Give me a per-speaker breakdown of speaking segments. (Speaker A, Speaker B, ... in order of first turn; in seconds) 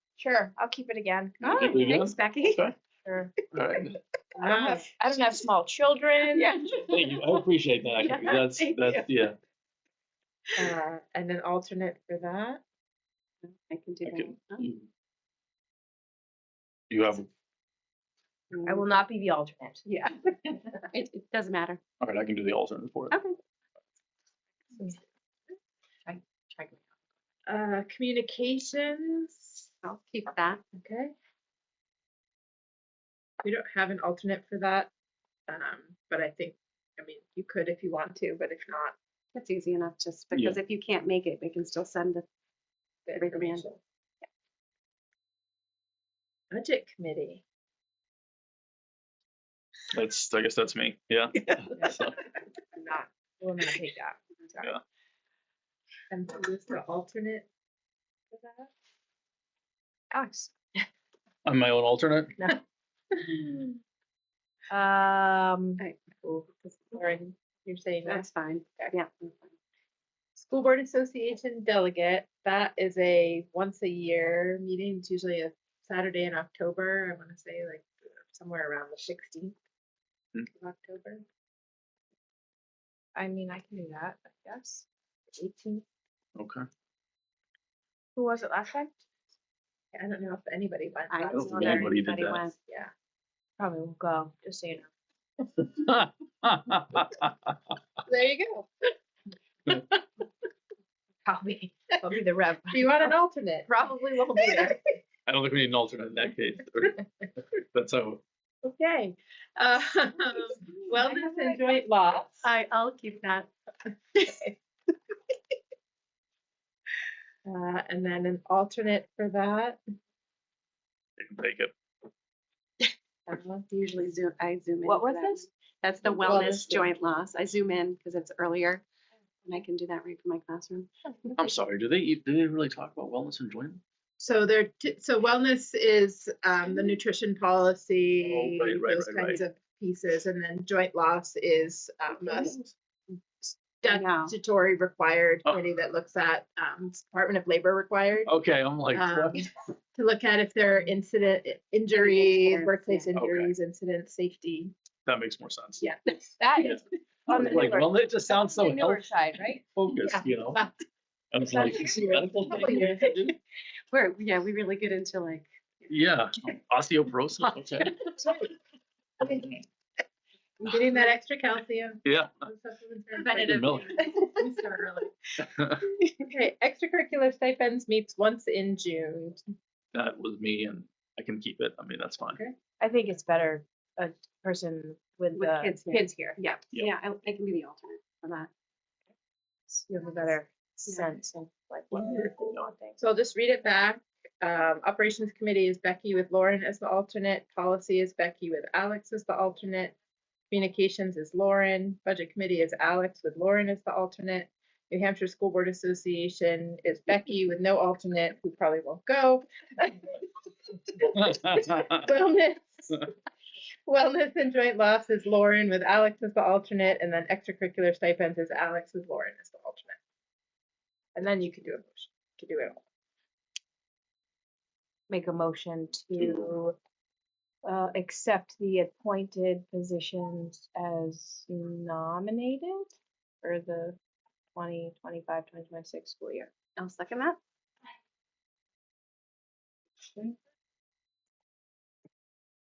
Speaker A: 0.2-1.7, 3.0-3.3, 4.5-6.5, 18.6-19.8, 51.7-52.1, 52.7-54.7, 60.1-60.5, 63.4-63.7, 64.7-65.8, 83.1-85.8, 88.2-89.0, 93.6-94.9, 101.2-103.1, 103.7-104.8, 111.0-111.6, 124.8-125.4, 126.2-126.5, 156.4-160.2, 161.5-162.9, 182.8-186.3, 189.7-193.0, 225.1-226.8, 227.6-234.0, 234.5-236.5
Speaker B: 1.4-2.6, 4.4-4.8, 6.2-7.4, 8.0-9.2, 13.4-14.7, 18.5-19.0, 19.9-21.8, 23.1-23.4, 26.1-26.8, 29.8-30.6, 39.3-42.2, 43.1-43.7, 68.0-69.5, 91.1-92.5, 112.4-113.5, 123.3-128.8, 129.4-131.3, 142.2-142.6, 143.9-144.3, 151.9-153.1, 155.8-156.1, 163.9-165.5, 167.8-168.2, 173.2-175.1, 185.3-188.5, 236.8-237.4
Speaker C: 1.4-2.8, 3.5-3.9, 6.9-9.4, 14.0-14.9, 16.9-17.3, 22.0-23.1, 40.3-40.6, 49.9-52.2, 61.4-62.4, 86.4-86.7, 91.3-92.5, 95.6-97.3, 105.3-108.2, 121.2-121.7, 131.3-133.8, 138.2-139.4, 148.2-149.4, 153.2-153.5, 155.1-155.9, 156.6-159.1, 159.6-160.6, 161.3-163.3, 165.9-168.0, 172.0-172.3, 173.4-173.9, 175.4-175.9, 179.9-182.4, 211.3-211.9, 226.2-226.5
Speaker D: 4.4-4.9, 10.6-12.6, 27.4-29.6, 30.7-31.1, 33.4-34.9, 35.5-39.0, 43.1-43.8, 46.5-47.4, 56.1-57.5, 58.3-58.7, 66.2-68.2, 70.3-79.6, 80.5-81.2, 89.9-92.0, 98.0-98.9, 102.7-103.7, 104.3-104.8, 108.6-112.5, 114.2-114.5, 117.4-119.8, 126.2-126.9, 134.2-142.6, 143.4-148.3, 148.9-154.7, 161.5-163.3, 169.2-169.5, 170.6-174.4, 176.2-179.4, 193.0-199.9, 200.5-210.2, 210.9-213.1, 213.8-220.0, 221.1-222.8